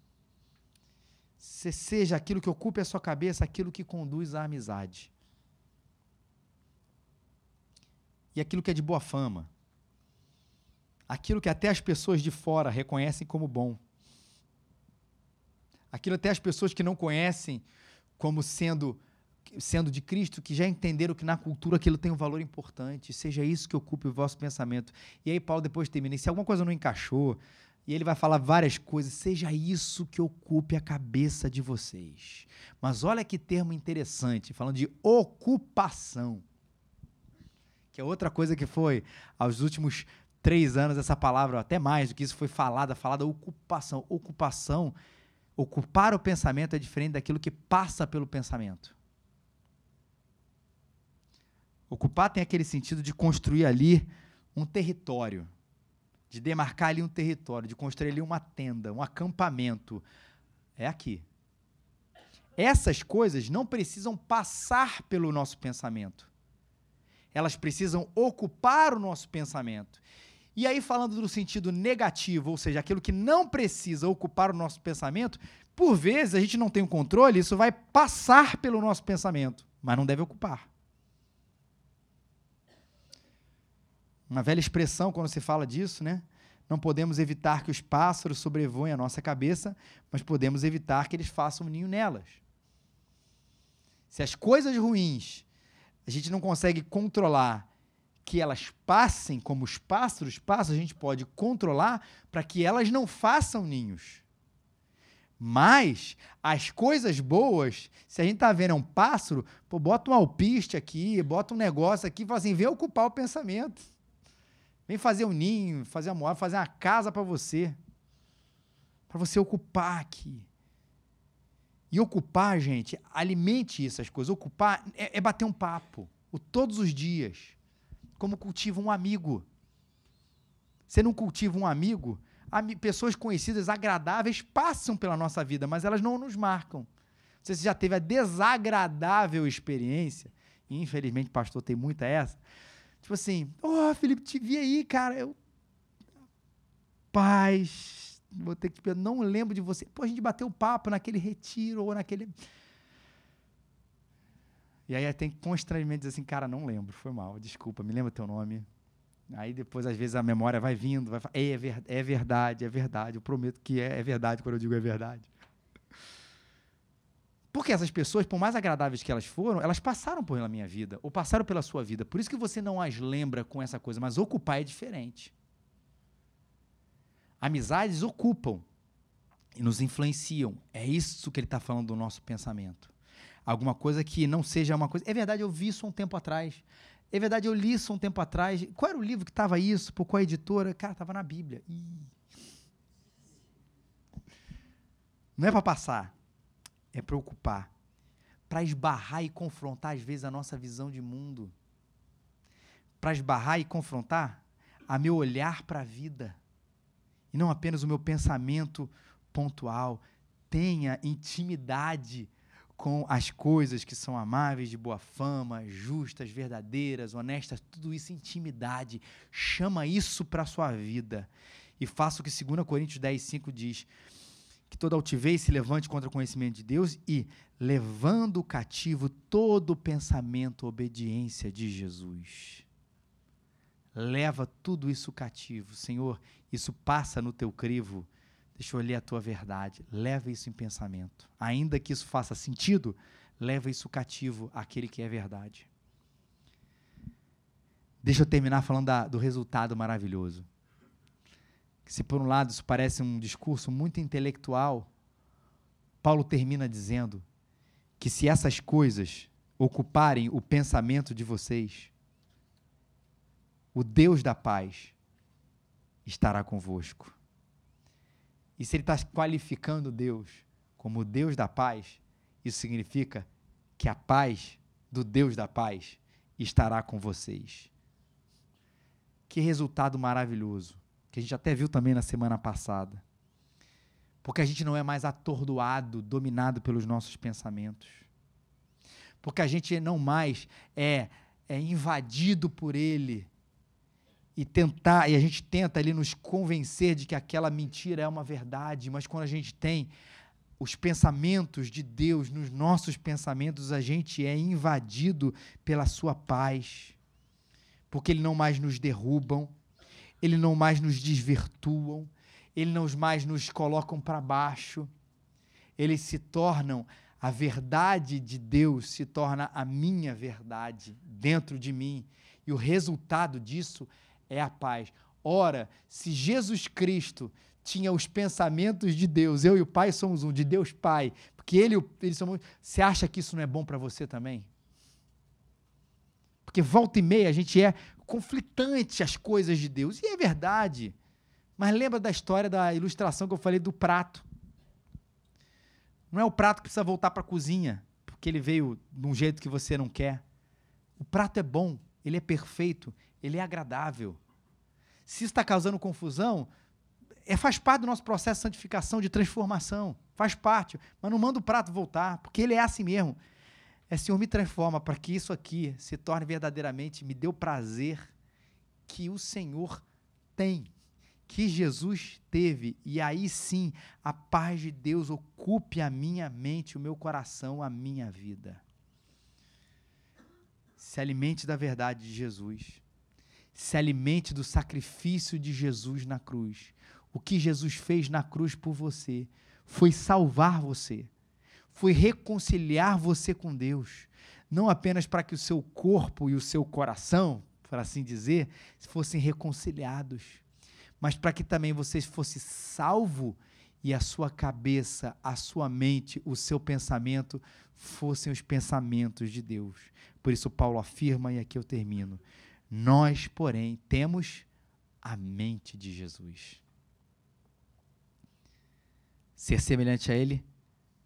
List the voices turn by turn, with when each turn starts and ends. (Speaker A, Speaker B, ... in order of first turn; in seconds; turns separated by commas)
Speaker A: 1.4-5.1, Speaker A: 8.3-9.5, Speaker A: 11.1-13.8, Speaker A: 15.9-17.6, Speaker A: 18.2-19.0, Speaker A: 19.5-36.4, Speaker A: 37.9-44.9, Speaker A: 45.6-48.9, Speaker A: 51.9-55.5, Speaker A: 56.3-60.0, Speaker A: 60.8-61.2, Speaker A: 62.6-66.3, Speaker A: 67.3-70.0, Speaker A: 70.5-80.7, Speaker A: 84.3-92.4, Speaker A: 94.1-95.5, Speaker A: 96.0-97.7, Speaker A: 98.2-104.2, Speaker A: 105.4-113.8, Speaker A: 114.9-117.8, Speaker A: 119.1-120.5, Speaker A: 121.9-127.6, Speaker A: 128.2-129.4, Speaker A: 130.9-136.9, Speaker A: 137.4-142.4, Speaker A: 143.0-145.3, Speaker A: 147.1-152.3, Speaker A: 154.9-158.7, Speaker A: 159.3-165.3, Speaker A: 167.5-175.3, Speaker A: 177.4-178.7, Speaker A: 179.5-182.9, Speaker A: 183.4-192.1, Speaker A: 195.4-196.1, Speaker A: 196.9-197.7, Speaker A: 198.5-201.5, Speaker A: 203.0-206.4, Speaker A: 207.3-221.3, Speaker A: 221.8-223.9, Speaker A: 224.7-232.7, Speaker A: 233.9-245.7, Speaker A: 248.0-250.4, Speaker A: 251.8-254.9, Speaker A: 256.0-257.2, Speaker A: 258.0-261.9, Speaker A: 263.7-264.9, Speaker A: 266.1-267.1, Speaker A: 268.6-273.3, Speaker A: 273.8-277.7, Speaker A: 279.3-283.0, Speaker A: 284.2-288.1, Speaker A: 289.2-293.3, Speaker A: 294.4-299.9, Speaker A: 300.6-307.0, Speaker A: 307.9-309.5, Speaker A: 310.2-314.9, Speaker A: 315.8-334.5, Speaker A: 336.4-340.9, Speaker A: 341.6-344.2, Speaker A: 346.1-350.2, Speaker A: 351.0-354.2, Speaker A: 355.1-356.5, Speaker A: 357.2-363.2, Speaker A: 363.9-368.1, Speaker A: 368.9-369.8, Speaker A: 370.4-370.7, Speaker A: 371.3-378.6, Speaker A: 380.8-382.8, Speaker A: 383.5-391.1, Speaker A: 391.7-400.4, Speaker A: 401.0-414.4, Speaker A: 415.0-416.6, Speaker A: 419.4-420.4